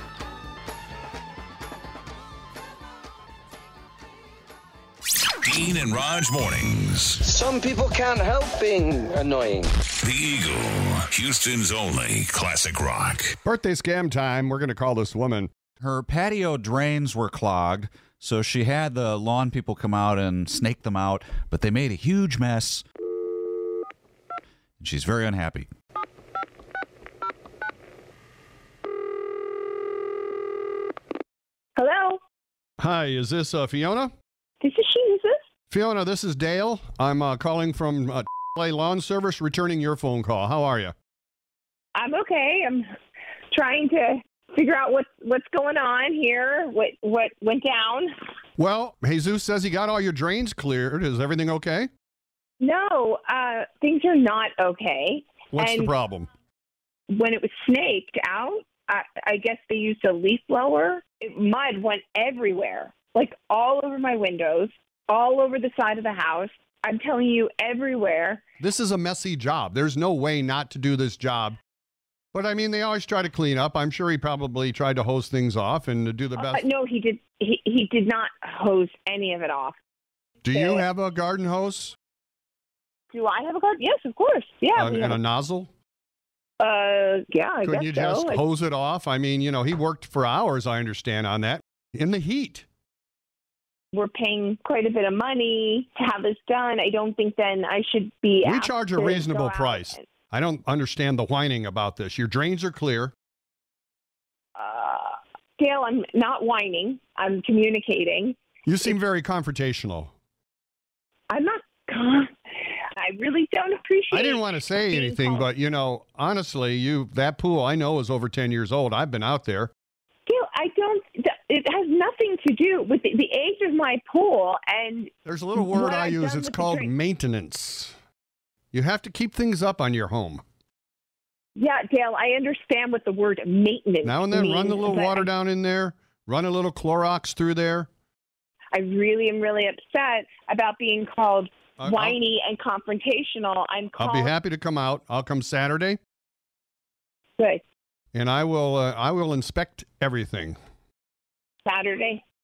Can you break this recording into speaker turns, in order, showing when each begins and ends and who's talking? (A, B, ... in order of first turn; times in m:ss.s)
0:05.4-0:07.2 A
0:07.2-0:09.7 B
0:10.0-0:13.4 A
0:13.4-0:15.5 C
0:15.8-0:22.8 D
0:24.8-0:25.7 D
0:31.8-0:32.2 E
0:32.8-0:34.1 C
0:34.6-0:35.4 E
0:35.7-0:41.0 C
0:42.0-0:42.9 E
0:43.5-0:48.1 E
0:48.6-0:51.9 C
0:52.6-0:55.9 E
0:55.5-0:56.3 C
0:57.1-1:08.4 E
1:08.6-1:11.6 C
1:12.3-1:16.6 C
1:16.4-1:19.8 E
1:20.4-1:22.0 C
1:20.5-1:20.8 E
1:23.1-1:25.2 E
1:24.8-1:25.7 C
1:26.6-1:28.4 E
1:27.6-1:32.7 C
1:33.9-1:40.0 E
1:38.4-1:43.1 C
1:44.6-1:48.4 E
1:48.7-1:50.1 C
1:51.3-1:52.3 E
1:52.9-1:55.5 E
1:54.1-1:59.7 C
2:00.3-2:06.9 E
2:05.2-2:08.0 C
2:08.7-2:10.4 C
2:11.6-2:15.3 E
2:14.0-2:17.9 C
2:18.7-2:24.4 E
2:21.8-2:22.2 C
2:24.0-2:26.0 C
2:28.1-2:30.6 C
2:31.6-2:32.2 E